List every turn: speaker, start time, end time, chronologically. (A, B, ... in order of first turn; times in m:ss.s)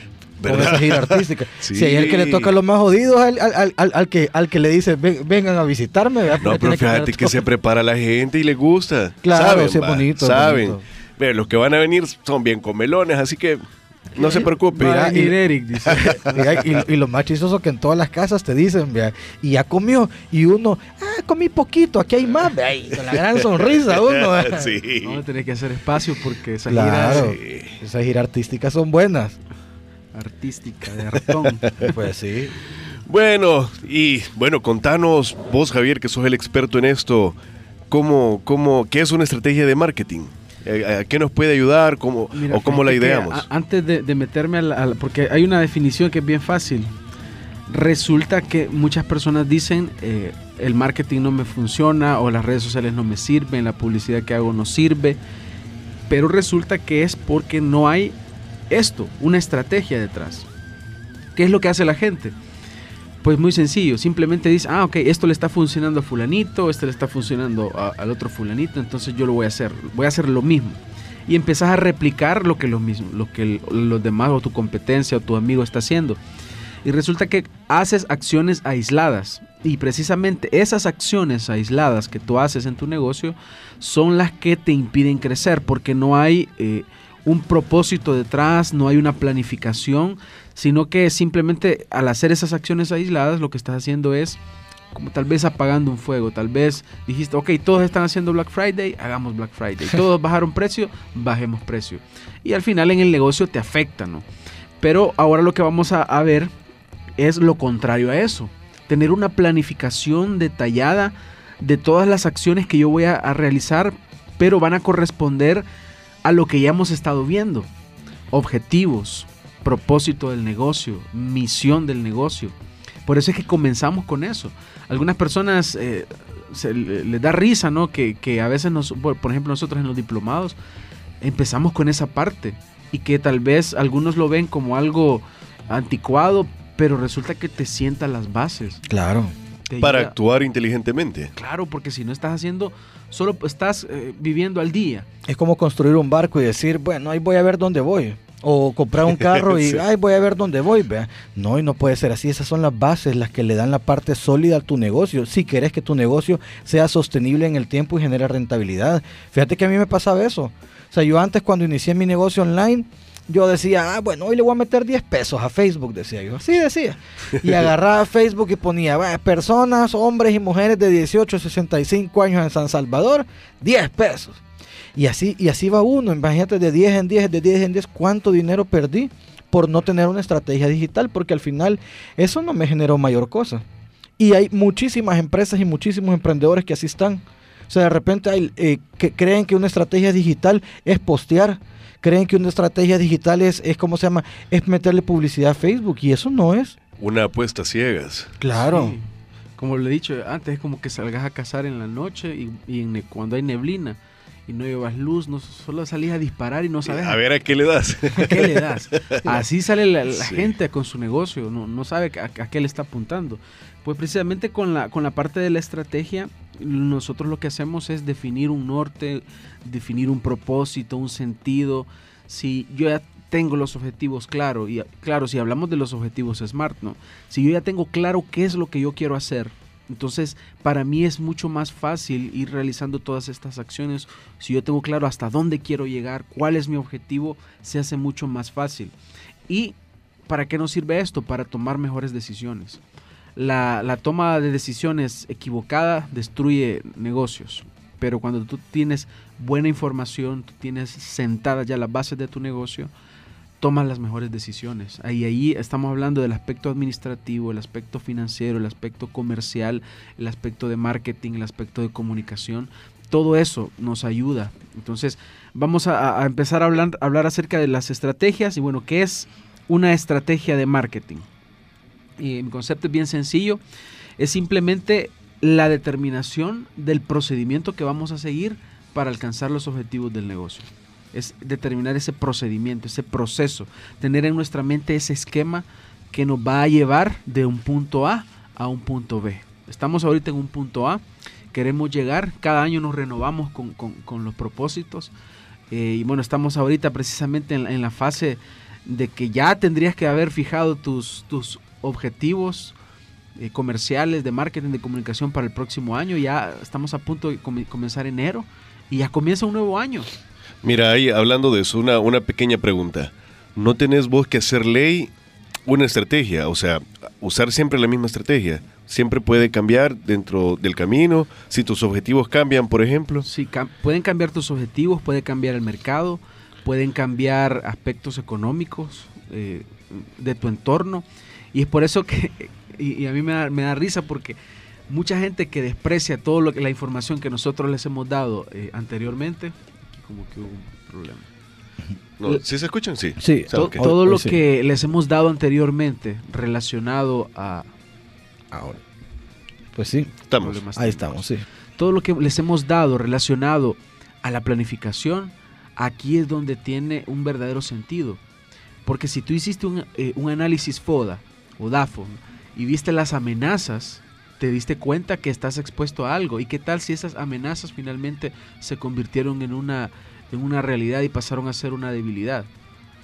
0:00.4-0:02.5 A
0:00.4-0:07.4 B
0:06.4-0:13.6 A
0:09.2-0:10.8 B
0:14.1-0:15.3 A
0:14.1-0:16.5 C
0:14.8-0:24.8 B
0:15.8-0:16.2 A
0:23.8-0:25.2 A
0:25.0-0:27.3 C
0:26.7-0:29.4 B
0:27.0-0:27.8 A
0:30.1-0:31.9 C
0:31.8-0:32.5 B
0:33.0-0:37.4 A
0:37.9-0:43.4 A
0:42.3-0:46.9 C
0:47.7-0:55.2 C
0:56.1-0:58.2 C
0:58.7-1:00.5 C
1:01.3-1:02.3 C
1:03.2-1:16.2 C
1:16.8-1:34.4 C
1:34.9-1:44.2 C
1:44.8-1:46.5 C
1:47.2-1:55.6 C
1:56.2-1:57.7 C
1:58.3-2:02.5 C
2:03.0-2:10.6 C
2:11.2-2:18.8 C
2:18.9-2:19.3 B
2:19.7-2:20.1 C
2:19.8-2:21.3 A
2:21.4-2:25.1 C
2:25.3-2:54.4 B
2:54.9-3:03.6 B
3:04.2-3:16.8 B
3:17.0-3:18.3 A
3:18.4-3:19.0 B
3:18.5-3:19.0 C
3:19.6-3:27.2 C
3:26.9-3:29.3 A
3:28.1-3:58.9 C
3:30.2-3:30.5 A
3:59.5-3:59.8 C
4:00.3-4:02.8 C
4:03.4-4:12.9 C
4:13.6-4:31.3 C
4:32.2-4:33.6 C
4:34.2-4:55.1 C
4:55.7-5:02.7 C
5:03.4-5:10.1 C
5:10.6-5:15.1 A
5:15.6-5:23.3 A
5:23.2-5:34.4 C
5:34.9-5:41.3 C
5:42.2-5:43.8 A
5:43.2-5:44.4 B
5:43.5-5:47.7 C
5:48.5-5:48.8 B
5:49.7-5:50.2 B
5:50.3-5:50.6 A
5:50.4-5:58.2 C
5:50.8-5:51.4 B
5:58.8-6:12.5 C